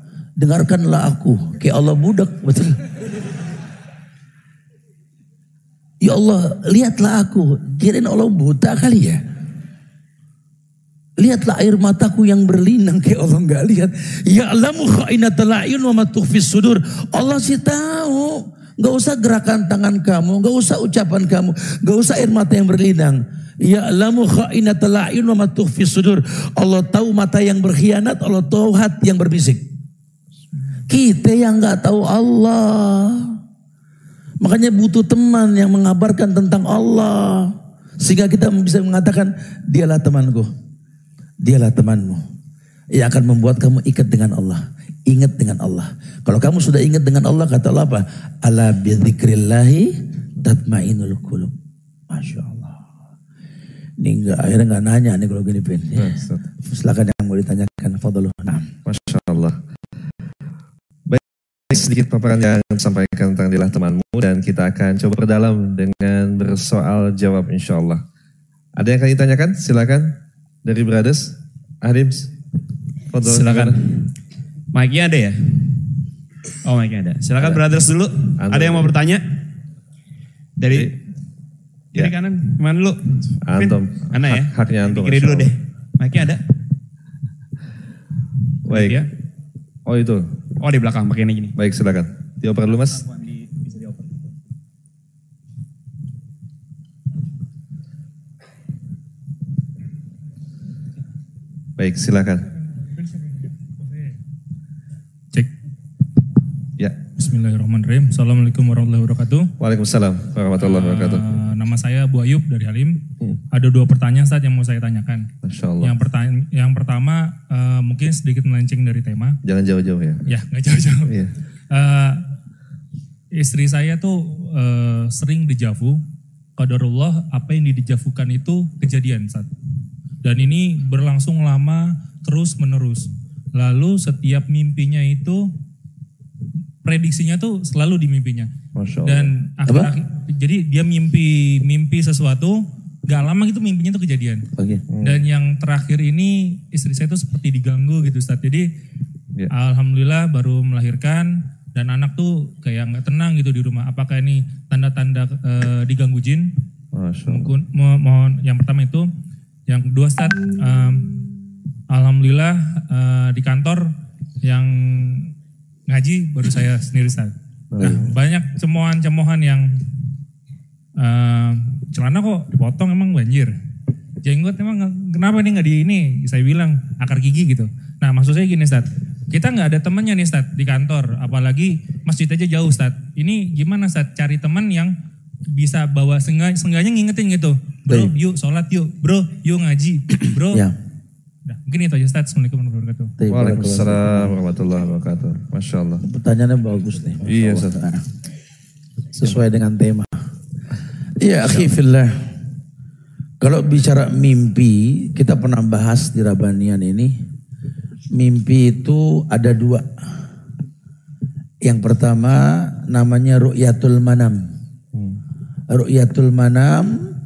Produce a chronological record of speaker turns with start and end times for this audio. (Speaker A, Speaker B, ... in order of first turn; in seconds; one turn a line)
Speaker A: 0.4-2.8
Speaker A: 6.0-9.2
Speaker A: 11.2-29.6
Speaker A: 30.9-33.3
Speaker A: 34.4-40.5
Speaker A: 41.4-42.2
Speaker A: 43.0-51.5
Speaker A: 52.1-52.8
Speaker A: 54.0-58.7
Speaker B: 56.0-56.4
Speaker B: 58.8-59.6
Speaker B: 61.1-68.0
Speaker B: 68.8-72.3
Speaker B: 73.1-73.8
Speaker C: 73.2-74.1
Speaker C: 74.7-75.8
Speaker C: 76.6-79.2
Speaker B: 77.4-77.6
Speaker B: 78.4-78.9
Speaker C: 80.6-81.0
Speaker C: 81.9-86.5
Speaker B: 83.4-85.5
Speaker B: 88.6-89.1
Speaker C: 88.7-89.1
Speaker B: 89.8-90.3
Speaker C: 90.6-91.5
Speaker B: 91.5-93.1
Speaker C: 93.7-94.0
Speaker B: 101.8-102.5
Speaker D: 107.2-109.5
Speaker B: 109.6-111.2
Speaker D: 110.6-115.3
Speaker B: 115.4-116.0
Speaker D: 115.8-119.4
Speaker B: 119.4-120.2
Speaker D: 120.3-121.1
Speaker B: 121.1-121.3
Speaker D: 121.7-122.2
Speaker D: 123.3-126.0
Speaker D: 126.6-129.5
Speaker D: 130.2-135.5
Speaker D: 136.8-138.5
Speaker B: 138.8-139.3
Speaker D: 139.0-144.4
Speaker A: 139.7-139.9
Speaker A: 144.6-144.8
Speaker B: 144.9-145.2
Speaker D: 145.0-148.7
Speaker D: 149.5-156.5
Speaker B: 156.9-157.5
Speaker D: 157.3-159.1
Speaker D: 159.7-161.2
Speaker D: 161.9-163.9
Speaker D: 164.4-165.3
Speaker D: 165.9-169.7
Speaker B: 167.7-168.1
Speaker D: 171.0-173.5
Speaker D: 174.2-184.9
Speaker D: 185.5-190.7
Speaker D: 191.5-193.1
Speaker A: 193.2-194.3
Speaker B: 193.3-196.0
Speaker A: 196.0-198.0
Speaker B: 197.2-197.8
Speaker A: 199.1-200.1
Speaker A: 201.2-202.2
Speaker A: 203.4-207.1
Speaker A: 208.1-209.8
Speaker A: 211.6-214.4
Speaker A: 215.7-216.9